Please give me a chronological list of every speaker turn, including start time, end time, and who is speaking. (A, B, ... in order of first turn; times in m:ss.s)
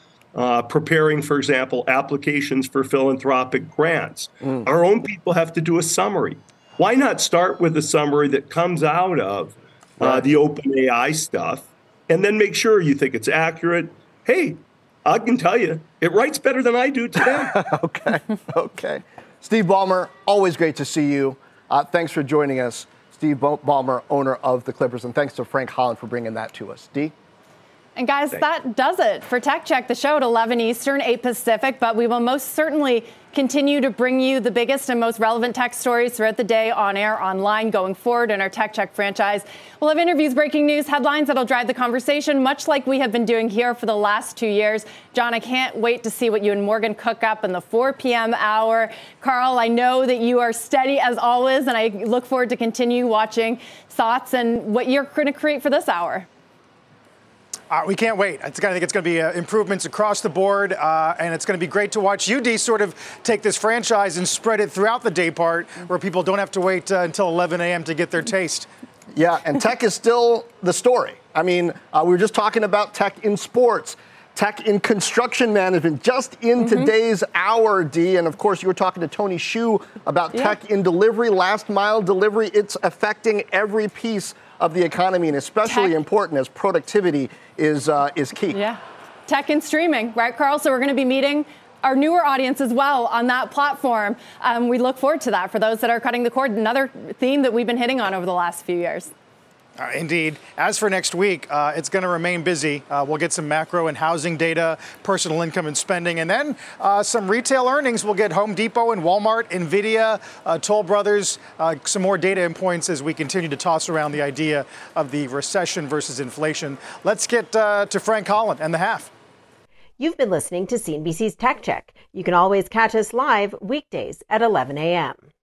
0:00.3-0:17.6 A
0:17.3-0:27.1 B
0:28.0-0:56.3 C
0:57.7-1:08.7 D
1:09.1-1:28.6 B
1:25.7-1:25.9 C
1:28.5-1:39.1 C
1:39.8-1:59.1 D
2:00.0-2:05.2 E